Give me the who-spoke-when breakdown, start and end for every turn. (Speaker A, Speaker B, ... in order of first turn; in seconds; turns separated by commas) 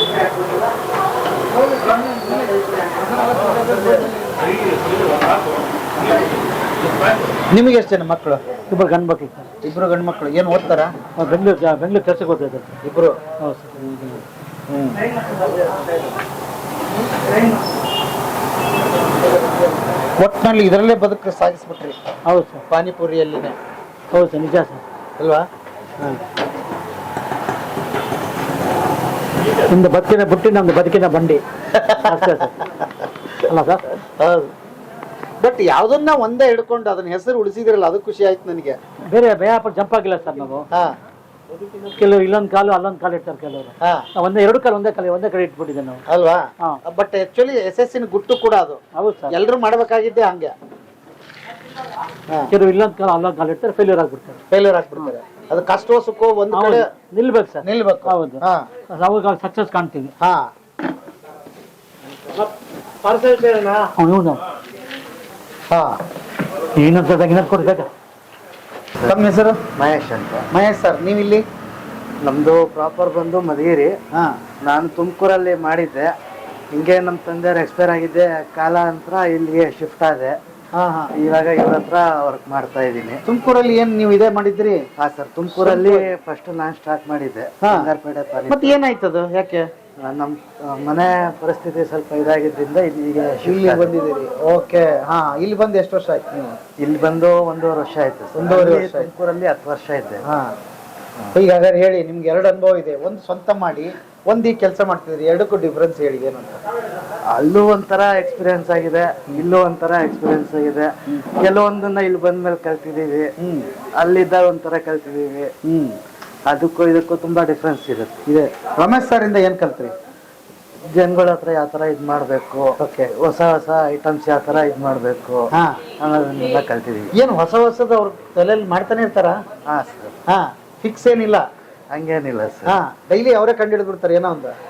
Speaker A: 3.0-4.3, Speaker A: 7.5-8.4, Speaker B: 8.7-9.5, Speaker A: 9.6-10.9, Speaker B: 11.2-12.8, Speaker A: 12.8-13.2, Speaker B: 13.4-14.2, Speaker A: 14.7-15.1, Speaker A: 20.2-22.0, Speaker B: 22.3-22.6, Speaker A: 22.7-23.6, Speaker B: 24.1-24.8, Speaker A: 25.2-25.5, Speaker B: 29.7-32.5, Speaker A: 31.7-34.5, Speaker B: 33.5-33.9, Speaker A: 35.4-38.8, Speaker B: 39.1-40.7, Speaker B: 42.0-46.0, Speaker A: 43.8-44.1, Speaker A: 46.1-50.5, Speaker B: 49.0-49.4, Speaker B: 52.5-54.4, Speaker A: 54.5-56.9, Speaker B: 56.5-60.1, Speaker A: 57.6-58.7, Speaker A: 60.2-60.5, Speaker A: 63.0-63.9, Speaker B: 63.9-64.4, Speaker A: 65.7-66.0, Speaker B: 66.8-67.9, Speaker A: 69.0-69.6, Speaker C: 69.8-70.5, Speaker A: 70.5-71.5, Speaker C: 72.2-73.9, Speaker A: 74.1-74.4, Speaker C: 74.6-76.1, Speaker C: 76.7-80.4, Speaker A: 80.8-81.1, Speaker C: 81.2-83.2, Speaker A: 83.3-84.9, Speaker C: 85.0-88.8, Speaker A: 85.5-86.1, Speaker A: 87.6-87.9, Speaker A: 88.5-89.7, Speaker C: 90.0-93.9, Speaker A: 93.5-96.5, Speaker C: 96.8-100.2, Speaker A: 98.4-99.1, Speaker A: 100.2-100.5, Speaker A: 101.3-106.6, Speaker C: 107.3-113.3, Speaker A: 113.4-113.7, Speaker C: 114.0-115.5, Speaker A: 115.7-116.0, Speaker C: 116.5-118.2, Speaker A: 118.3-119.9, Speaker C: 120.9-127.1, Speaker A: 122.8-123.1, Speaker A: 125.5-125.8, Speaker A: 127.1-129.4, Speaker C: 129.7-130.2, Speaker A: 130.3-131.4, Speaker C: 131.9-132.8, Speaker A: 132.7-134.6